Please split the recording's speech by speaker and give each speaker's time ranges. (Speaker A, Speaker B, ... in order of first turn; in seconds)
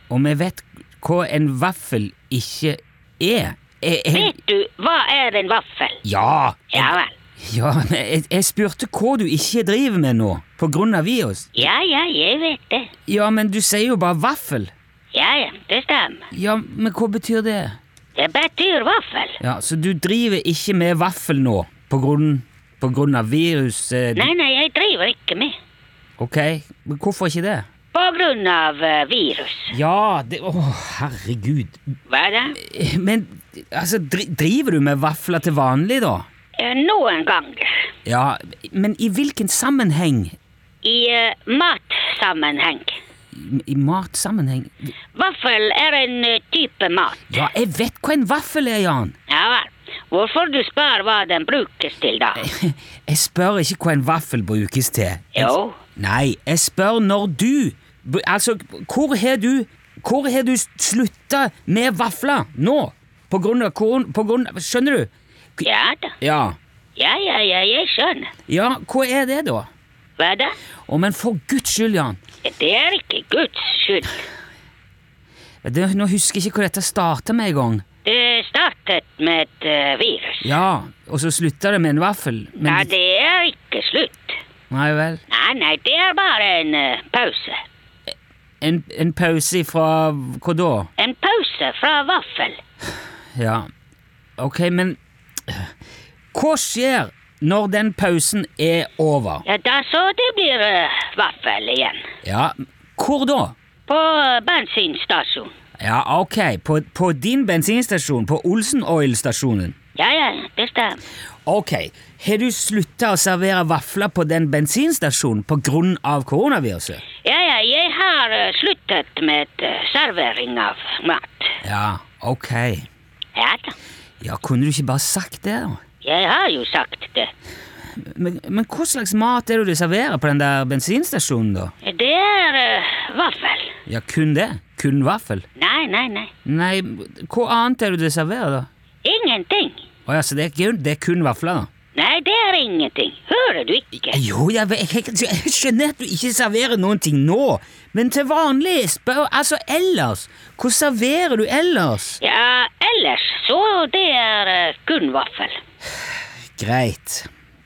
Speaker A: 0.1-4.4, 6.0-11.7, 13.1-14.7, 16.3-17.8, 19.4-24.3, 26.2-27.7, 29.7-31.8, 32.6-36.3, 38.1-40.4, 43.3-44.8, 47.3-49.1, 52.4-65.6, 66.2-66.6, 68.5-69.7, 70.9-72.2, 75.6-77.8, 80.4-82.9, 84.7-85.2, 88.6-90.9, 93.4-93.7, 94.4-95.7, 96.3-99.4, 102.2-103.5, 105.8-109.8, 111.5-117.0, 121.6-122.9, 124.2-125.8, 128.0-131.7, 133.9-135.4, 136.4-138.7, 140.1-141.7, 144.1-152.2, 156.6-157.3
Speaker B: 4.1-6.0, 6.7-7.1, 11.6-12.9, 15.1-16.2, 18.2-19.4, 24.2-25.5, 27.9-29.7, 32.1-32.6, 36.6-37.7, 40.8-43.0, 45.1-47.5, 49.3-52.5, 55.3-55.8, 65.6-66.2, 67.0-68.3, 70.2-70.5, 72.4-74.2, 78.0-80.5, 82.7-84.4, 85.3-87.6, 91.0-92.6, 99.5-102.0, 103.9-105.5, 110.0-111.0, 117.2-121.5, 123.3-123.8, 126.0-127.3, 131.8-133.7, 135.6-136.3, 139.0-139.8, 141.9-144.2, 152.2-155.6